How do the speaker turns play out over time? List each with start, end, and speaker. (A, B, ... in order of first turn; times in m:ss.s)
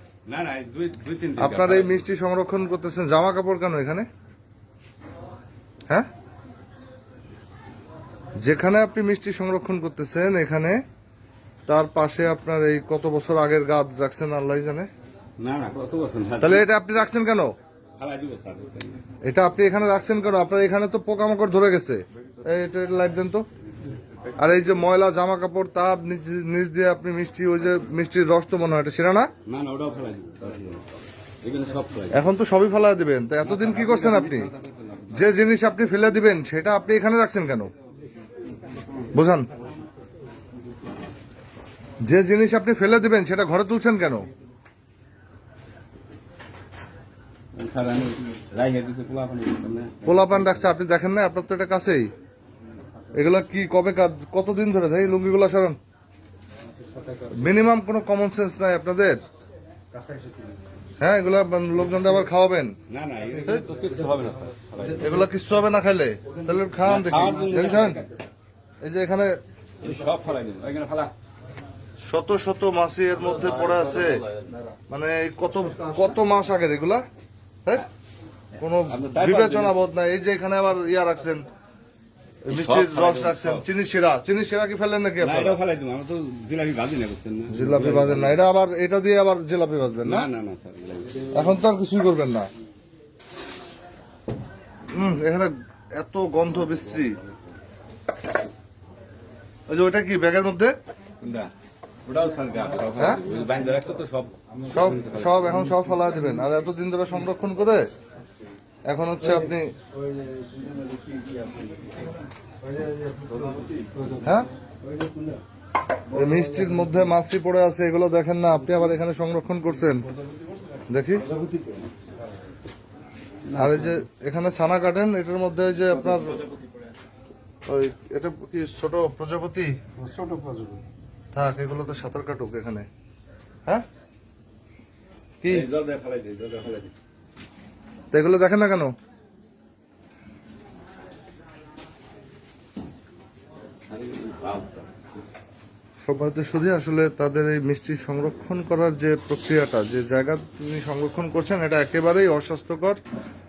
0:00.2-0:02.1 A
0:01.4-0:04.1 B
0:08.4-0:10.8 B
0:11.7-0:14.9 B
0:15.4-0:16.7 A
0:16.4-0:17.5 B
0:18.0-0:19.0 A
0:19.2-0:23.4 B
0:24.3-0:24.7 A
0:24.4-0:29.3 B
0:29.4-0:32.2 A
0:32.1-0:34.5 B
0:33.4-0:35.4 A
0:35.1-0:37.7 B
0:39.1-0:39.5 B
0:42.0-0:44.3 B
0:47.5-0:50.8 A
0:50.0-0:52.1 B
0:53.1-0:55.8 B
0:56.7-0:57.5 C
0:57.3-0:59.2 B
0:59.9-1:00.6 C
1:01.0-1:02.8 B
1:02.9-1:05.2 A
1:05.0-1:08.0 B
1:06.8-1:08.1 A
1:07.2-1:08.0 C
1:08.8-1:09.4 B
1:09.8-1:11.1 A
1:12.0-1:14.2 B
1:13.3-1:14.5 A
1:14.9-1:17.0 B
1:18.6-1:21.5 B
1:18.9-1:19.8 A
1:22.4-1:25.6 B
1:22.5-1:23.6 A
1:25.2-1:28.4 A
1:27.5-1:30.3 B
1:30.0-1:31.4 A
1:31.3-1:32.5 B
1:34.9-1:37.2 B
1:39.7-1:40.7 B
1:41.2-1:41.5 A
1:42.0-1:45.6 A
1:43.0-1:43.2 B
1:44.7-1:47.9 B
1:48.9-1:49.7 B
1:49.3-1:52.1 C
1:52.6-1:55.4 C
1:54.2-1:54.5 B
1:56.1-2:00.1 B
1:56.1-1:57.0 C
2:00.9-2:01.3 B
2:01.2-2:01.9 C
2:03.5-2:04.0 A
2:03.5-2:06.4 B
2:05.9-2:06.9 A
2:07.7-2:09.7 B
2:10.0-2:10.8 C
2:11.3-2:12.9 B
2:15.4-2:15.7 B
2:15.5-2:16.9 A
2:18.1-2:18.9 B
2:23.9-2:24.9 A
2:26.0-2:33.0 B